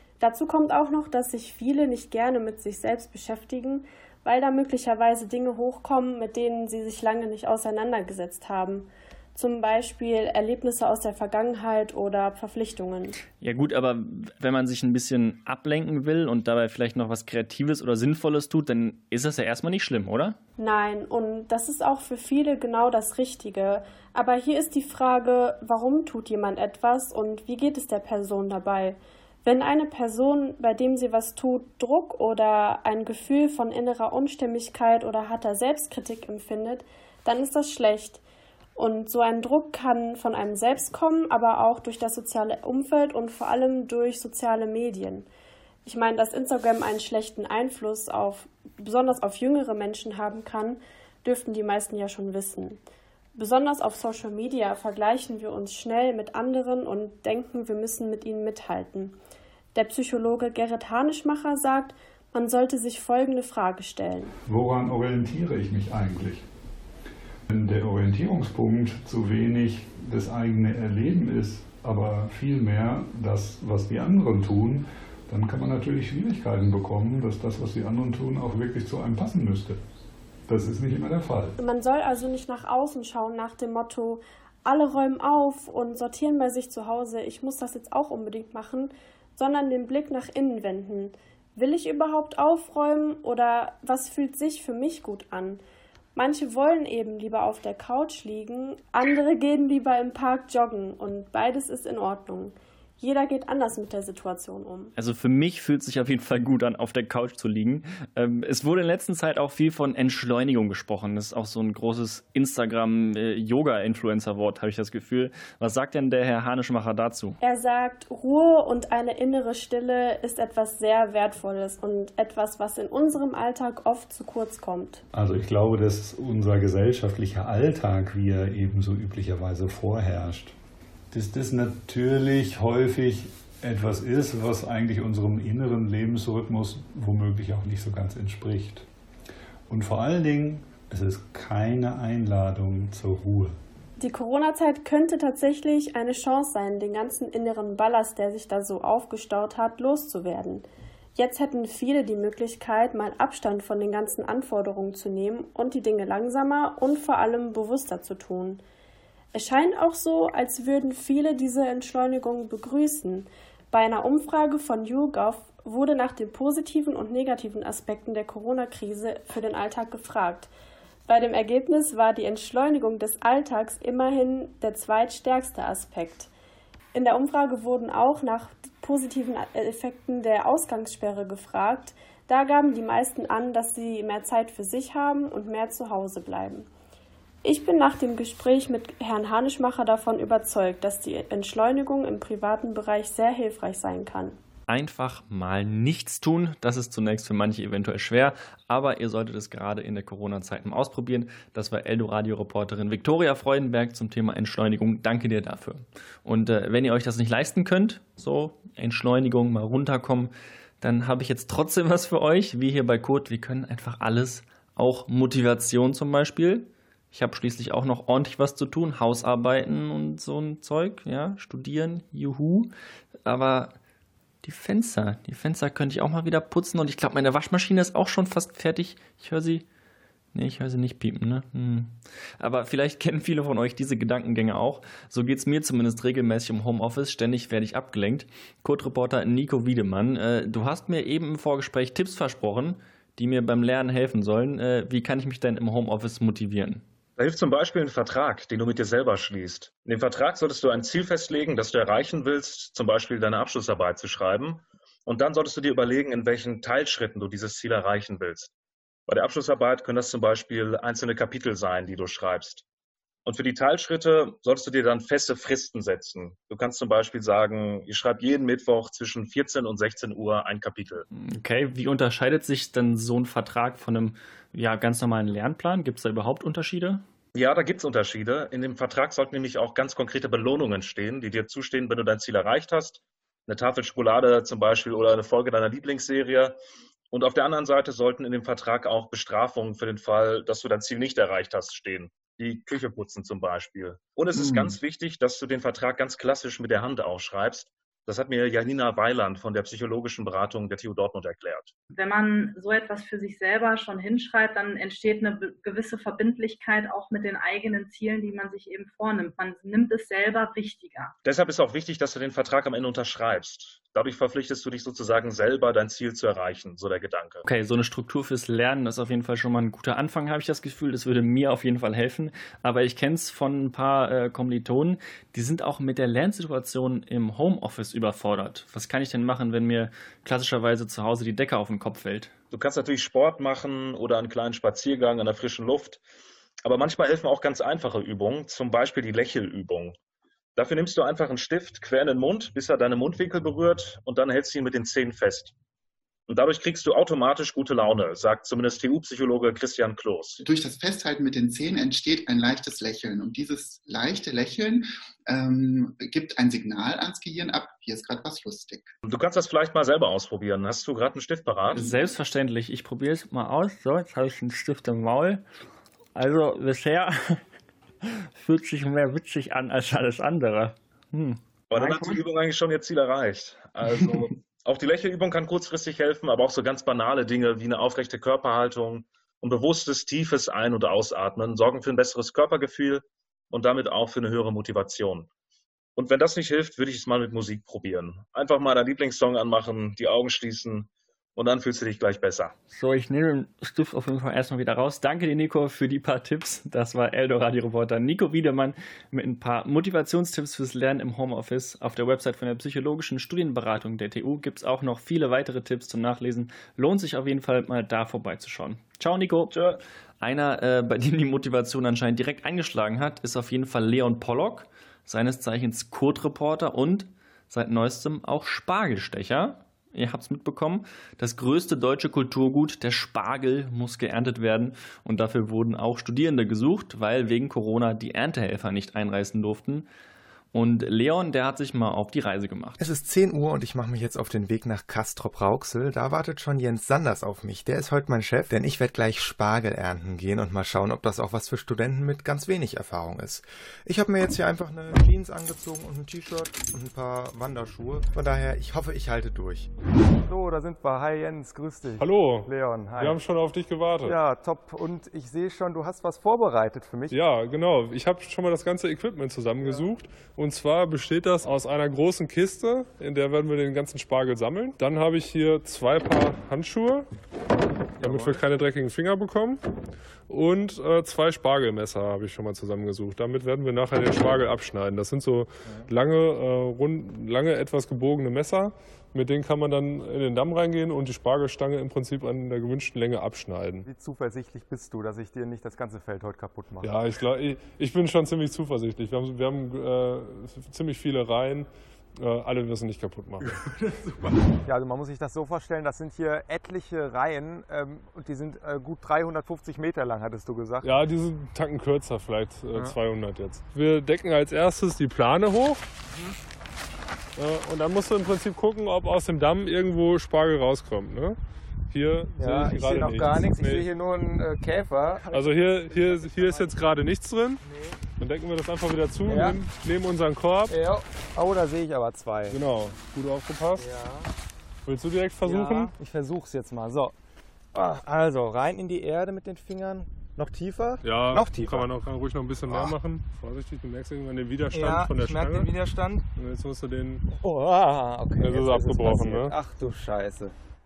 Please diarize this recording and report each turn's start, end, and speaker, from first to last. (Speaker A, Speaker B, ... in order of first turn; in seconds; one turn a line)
Speaker A: 0.2-13.2
Speaker B: 13.4-20.4
Speaker A: 20.6-38.2
Speaker A: 38.8-45.3
Speaker A: 45.9-52.8
Speaker A: 53.4-59.1
Speaker A: 59.8-64.3
Speaker C: 64.5-66.5
Speaker C: 67.5-79.8
Speaker C: 80.5-81.6
Speaker A: 81.6-95.6
Speaker A: 96.2-104.9
Speaker B: 105.0-117.4
Speaker A: 117.4-125.0
Speaker C: 125.1-130.6
Speaker C: 131.1-138.9
Speaker C: 139.7-143.6
Speaker A: 144.0-150.6
Speaker A: 151.2-158.6
Speaker A: 159.3-170.5
Speaker A: 171.1-176.3
Speaker A: 176.9-186.7
Speaker A: 187.4-194.4
Speaker B: 194.7-222.7
Speaker B: 223.2-223.8
Speaker B: 224.4-229.7
Speaker B: 230.3-246.8
Speaker D: 247.2-258.5
Speaker D: 259.1-262.6
Speaker D: 263.2-271.1
Speaker B: 271.1-277.0
Speaker D: 277.4-286.6
Speaker D: 287.1-301.8
Speaker E: 301.9-311.1
Speaker D: 311.2-317.4
Speaker B: 317.4-332.3
Speaker D: 332.5-336.0
Speaker D: 336.6-340.0
Speaker D: 340.6-345.5
Speaker D: 346.3-350.4
Speaker F: 350.4-358.9
Speaker D: 359.1-361.9
Speaker B: 361.7-365.4
Speaker B: 366.1-367.4
Speaker B: 368.1-371.4
Speaker D: 371.7-385.3
Speaker D: 386.0-392.5
Speaker B: 392.7-409.5
Speaker D: 409.5-409.8
Speaker B: 410.2-429.9
Speaker B: 430.5-432.8
Speaker G: 432.8-449.7
Speaker H: 450.2-453.2
Speaker I: 452.0-454.2
Speaker H: 454.0-457.2
Speaker I: 457.1-467.1
Speaker I: 468.0-469.6
Speaker H: 468.0-468.4
Speaker I: 470.3-483.9
Speaker H: 483.9-486.9
Speaker I: 486.8-493.6
Speaker H: 493.9-500.9
Speaker I: 500.8-505.8
Speaker I: 507.4-511.4
Speaker I: 511.9-513.9
Speaker H: 512.4-516.8
Speaker I: 515.3-517.6
Speaker H: 517.6-518.0
Speaker I: 518.2-520.7
Speaker H: 519.3-519.6
Speaker H: 520.7-522.6
Speaker I: 522.5-523.9
Speaker H: 523.8-524.3
Speaker I: 524.9-525.9
Speaker H: 525.5-527.1
Speaker H: 527.7-531.9
Speaker I: 531.0-535.7
Speaker H: 534.7-536.2
Speaker I: 536.4-537.2
Speaker H: 537.3-540.5
Speaker I: 538.4-539.5